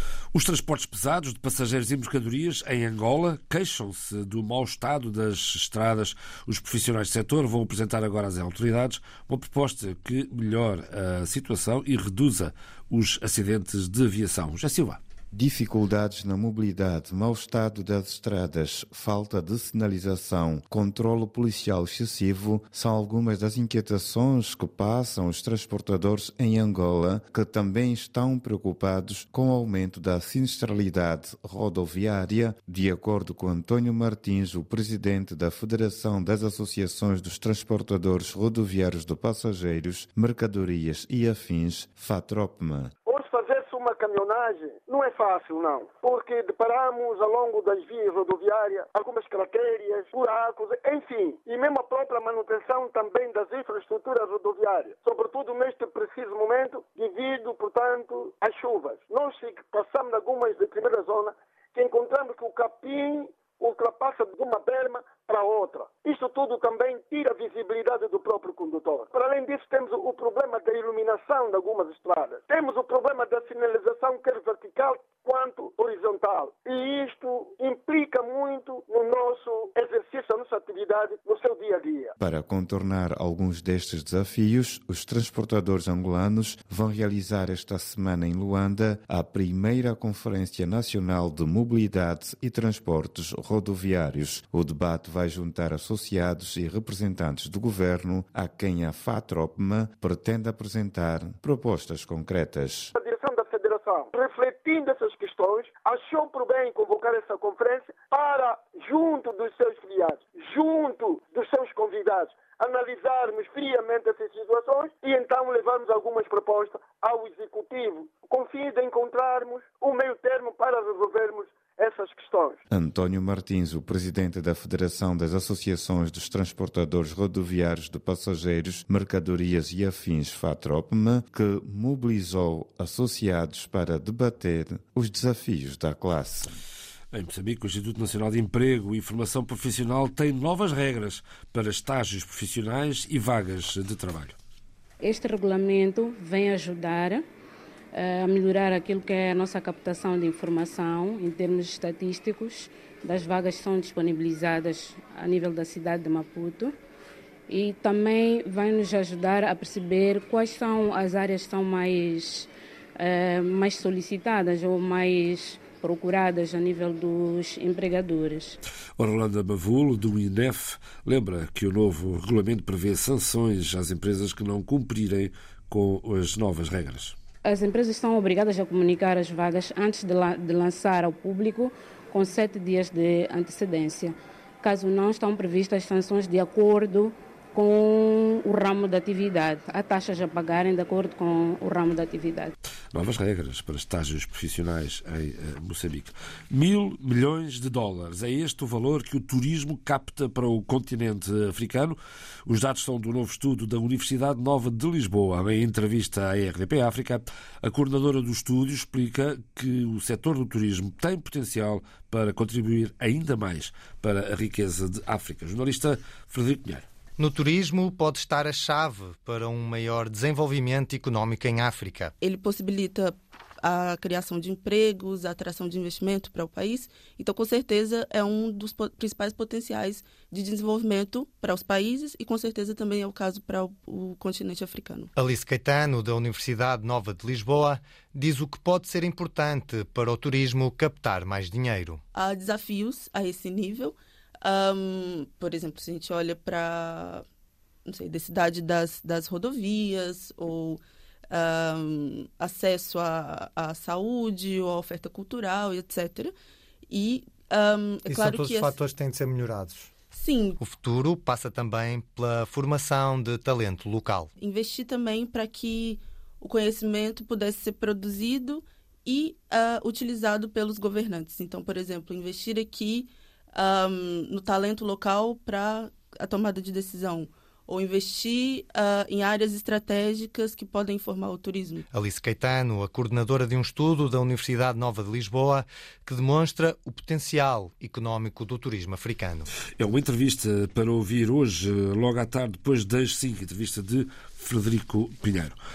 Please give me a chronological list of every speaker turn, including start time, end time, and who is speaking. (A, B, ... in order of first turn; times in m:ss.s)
0:00.3-0:15.0 A
0:15.3-0:42.9 B
0:43.0-1:22.1 C
1:22.2-1:42.9 B
1:43.0-2:02.6 C
2:02.7-2:16.5 B
2:17.1-2:24.3 A
2:25.0-2:27.2 D
2:27.9-2:36.7 D
2:37.5-2:48.6 D
2:49.0-2:57.1 A
2:57.4-3:12.5 D
3:12.9-3:36.8 A
3:37.2-3:42.1 E
3:42.2-3:55.1 F
3:55.1-4:02.0 E
4:02.2-4:07.2 F
4:07.8-4:16.3 F
4:16.9-4:18.6 F
4:18.0-4:19.9 E
4:20.1-4:20.6 F
4:20.6-4:24.3 E
4:24.4-4:41.8 F
4:41.9-4:49.5 E
4:49.8-4:55.6 A